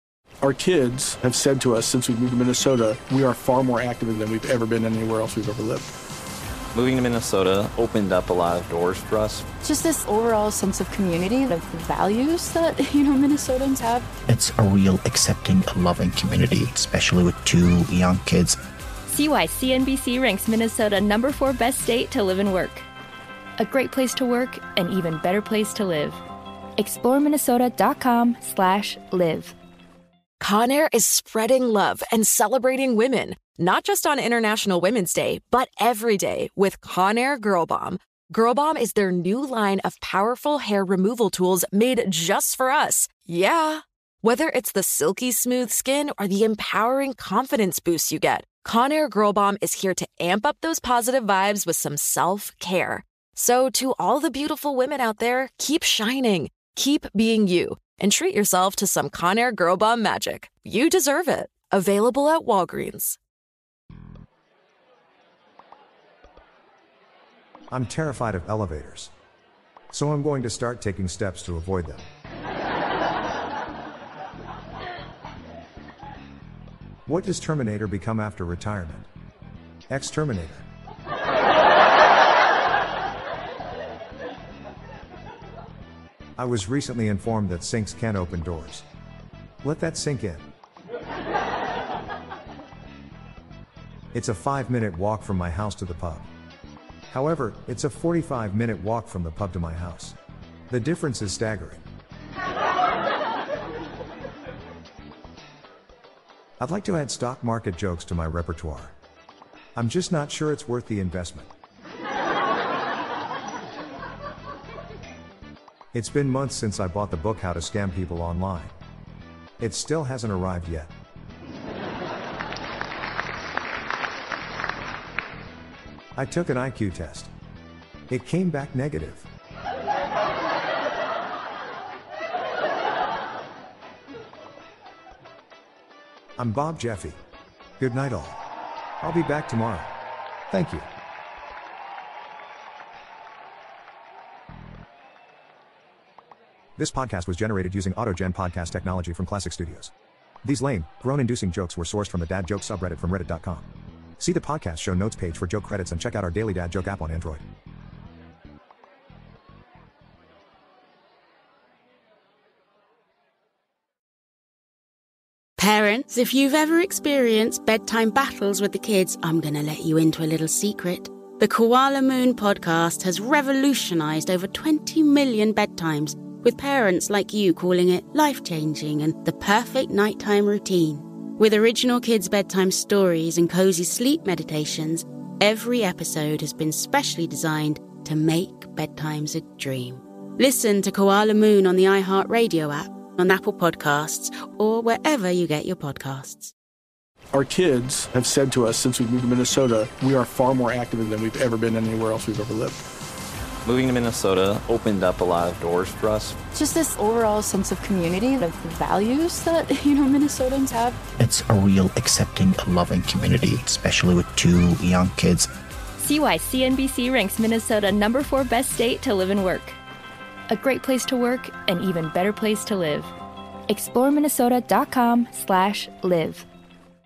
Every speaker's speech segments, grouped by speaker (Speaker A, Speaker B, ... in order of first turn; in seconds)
Speaker A: 0.4-5.9, 197.3-202.8
Speaker B: 6.7-9.4, 203.6-206.3
Speaker C: 9.6-14.1, 206.5-211.0
Speaker D: 14.3-18.6, 211.2-215.5
Speaker E: 19.1-22.9, 23.6-26.2, 26.8-29.5, 216.0-219.8, 220.5-223.1, 223.7-226.4
Speaker F: 30.4-63.2
Speaker G: 67.7-69.1, 69.9-72.0, 77.1-79.1, 79.9-80.7, 86.4-88.8, 89.6-90.4, 94.1-96.3, 97.1-100.2, 100.7-101.8, 106.6-108.9, 109.8-111.5, 115.9-118.7, 119.6-120.9, 126.2-127.3, 128.1-129.3, 136.4-137.2, 137.8-138.4, 139.0-139.9, 140.5-140.9, 146.8-149.9, 150.4-157.4
Speaker H: 165.6-196.5